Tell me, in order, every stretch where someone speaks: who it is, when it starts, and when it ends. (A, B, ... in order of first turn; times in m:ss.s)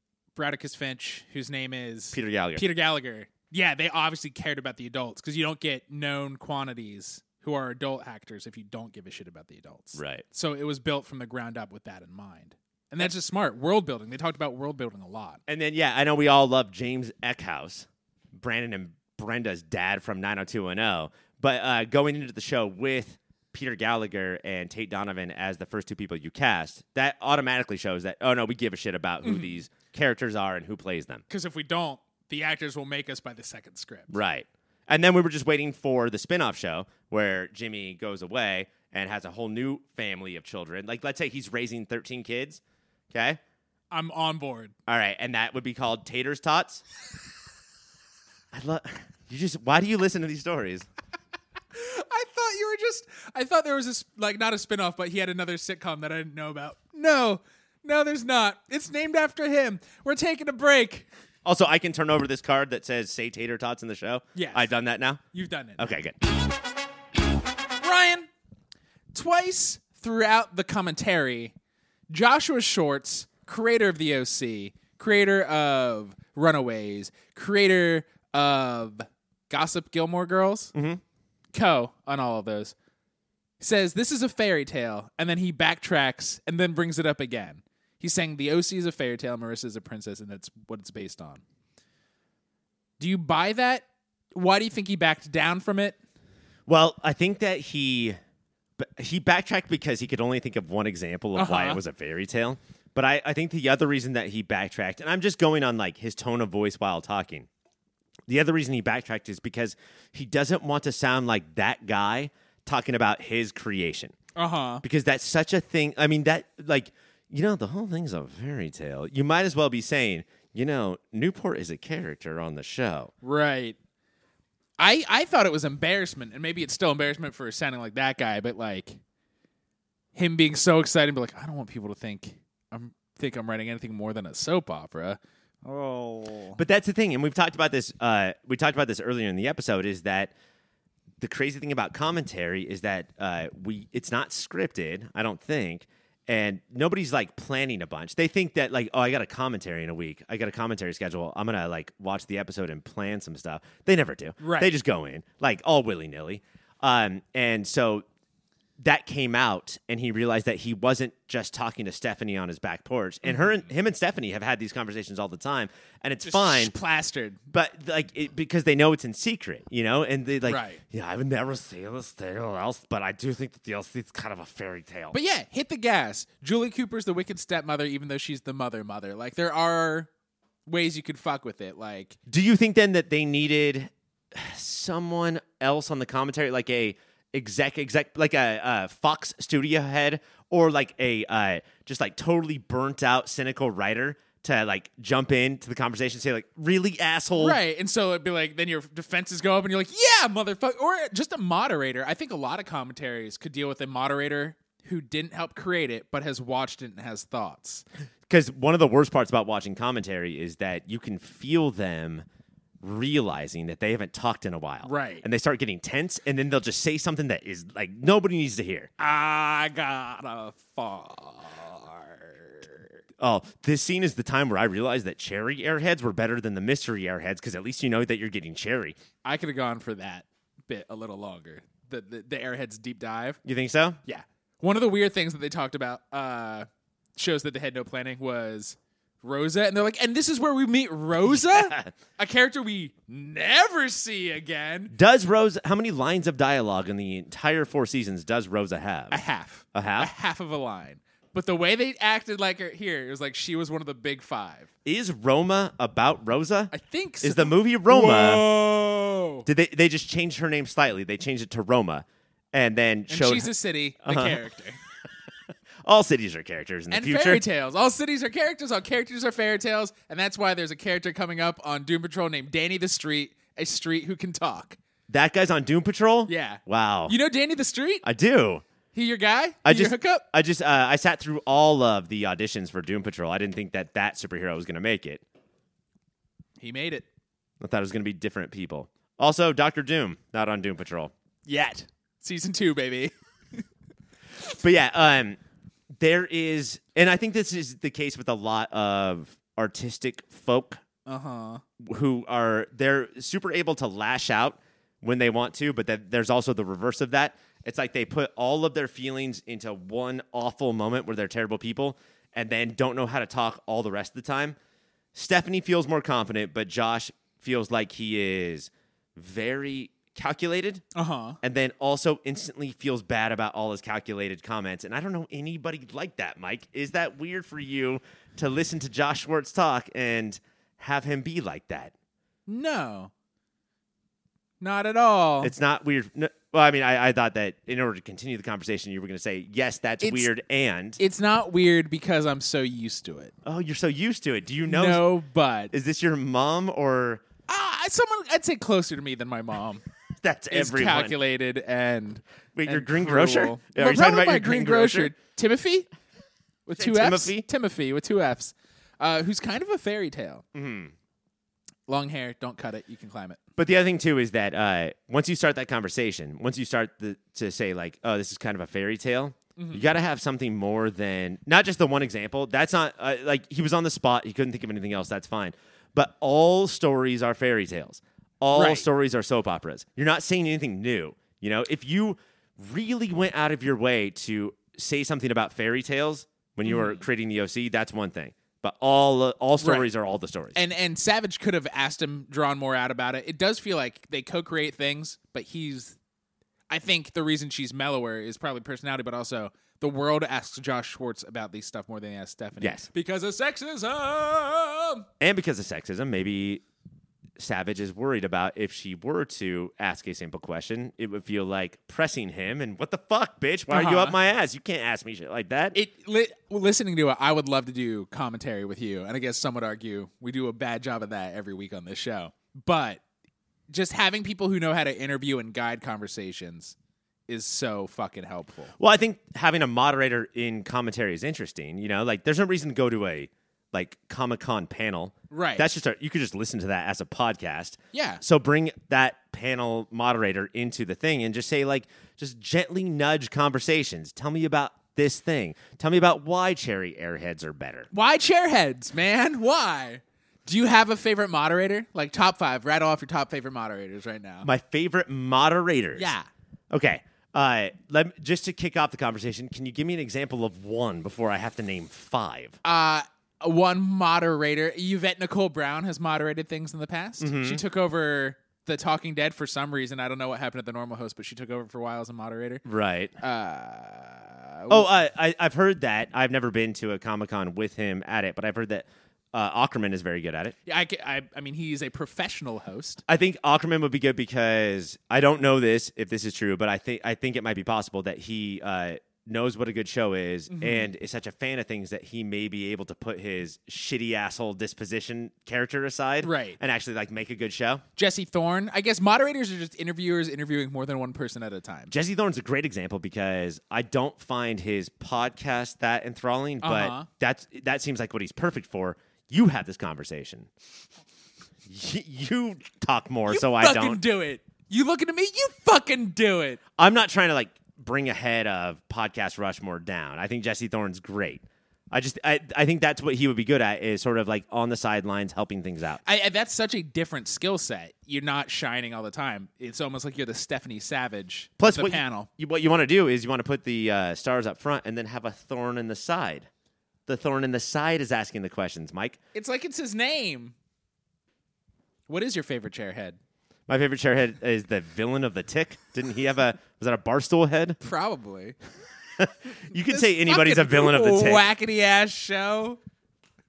0:00.3-0:15.4 A
0:02.1-0:02.6 B
0:10.0-0:10.2 B
0:15.5-0:31.2 B
0:29.2-0:29.6 A
0:31.3-0:34.1 A
0:34.1-0:43.4 B
0:43.9-0:44.7 A
0:44.9-0:46.8 B
0:48.5-0:50.9 B
0:51.7-1:01.1 A
1:01.4-1:05.2 B
1:04.3-1:04.7 A
1:05.3-1:05.9 A
1:05.8-1:06.2 B
1:07.8-1:08.3 A
1:09.1-1:11.5 A
1:12.1-1:20.7 A
1:20.7-1:21.0 B
1:21.5-1:22.7 A
1:23.6-1:31.4 A
1:33.0-1:36.0 A
1:36.7-1:38.2 B
1:38.8-1:47.5 B
1:41.3-1:41.8 A
1:48.3-1:54.1 B
1:54.4-1:54.8 A
1:54.8-2:03.1 B
2:03.2-2:03.8 A
2:04.8-2:09.0 A
2:10.1-2:16.6 A
2:16.6-2:20.3 B
2:21.2-2:38.0 B
2:34.4-2:34.7 A
2:38.8-2:46.7 B
2:43.2-2:43.5 A
2:46.2-2:47.4 A
2:47.5-2:55.1 B
2:50.4-2:50.8 A
2:55.1-3:00.1 A
3:00.6-3:02.2 A
3:02.3-3:17.6 B
3:17.4-3:27.8 A
3:28.3-3:32.2 B
3:32.8-3:38.9 B
3:34.8-3:35.2 A
3:39.0-3:42.9 A
3:43.2-3:49.0 B
3:49.2-3:53.4 A
3:53.4-3:54.0 B
3:54.0-4:04.9 A
4:01.2-4:01.9 B
4:04.9-4:09.2 B
4:09.1-4:14.7 A
4:09.7-4:10.1 B
4:14.8-4:18.4 B
4:16.7-4:19.5 A
4:19.4-4:23.5 B
4:23.1-4:24.8 A
4:24.0-4:24.4 B
4:25.8-4:27.4 B
4:26.9-4:34.8 A
4:35.1-4:37.1 B
4:36.3-4:38.0 A
4:38.0-4:38.6 B
4:38.9-4:40.2 A
4:39.6-4:45.2 B
4:46.6-4:47.0 A
4:47.6-4:51.1 B
4:51.4-4:53.6 A
4:54.5-4:55.4 B
4:56.0-5:00.8 B
5:01.0-5:01.6 A
5:01.8-5:14.6 B
5:15.1-5:20.8 B
5:20.9-5:21.4 A
5:21.4-5:31.9 B
5:32.5-5:33.1 A
5:34.6-5:35.5 A
5:35.4-5:41.0 B
5:40.0-5:40.3 A
5:41.0-5:43.3 A
5:43.4-5:45.1 B
5:44.6-5:45.7 A
5:45.7-5:47.2 B
5:47.5-5:49.8 A
5:50.2-5:51.2 B
5:50.5-5:55.9 A
5:52.5-5:55.1 B
5:56.6-6:00.4 A
5:56.8-5:57.4 B
6:00.5-6:00.9 B
6:01.9-6:03.4 A
6:03.6-6:30.6 B
6:09.6-6:09.8 A
6:18.5-6:18.8 A
6:26.6-6:27.0 A
6:29.6-6:29.9 A
6:30.5-6:36.0 A
6:36.7-6:45.1 A
6:42.6-6:42.9 B
6:45.2-6:46.6 B
6:47.4-6:55.8 B
6:53.7-6:54.2 A
6:55.7-7:03.0 A
7:03.7-7:06.7 A
7:07.3-7:08.7 A
7:08.8-7:27.9 B
7:15.3-7:15.6 A
7:17.9-7:18.2 A
7:27.9-7:34.5 A
7:34.4-7:36.1 B
7:36.0-7:36.3 A
7:36.7-7:42.6 B
7:42.6-7:52.6 A
7:47.2-7:47.6 B
7:52.6-7:53.1 B
7:53.2-7:54.9 A
7:54.7-8:00.5 B
8:00.6-8:03.0 A
8:03.1-8:17.8 B
8:10.5-8:10.9 A
8:16.2-8:16.6 A
8:18.0-8:21.9 A
8:21.9-8:30.5 B
8:26.6-8:27.1 A
8:31.6-8:34.0 B
8:33.3-8:36.6 A
8:36.8-8:46.0 B
8:46.0-8:52.3 A
8:51.6-8:56.5 B
8:57.1-8:59.2 B
8:59.3-9:00.5 A
9:02.1-9:03.2 A
9:03.7-9:07.8 B
9:07.8-9:08.6 A
9:09.2-9:11.4 B
9:09.7-9:12.8 A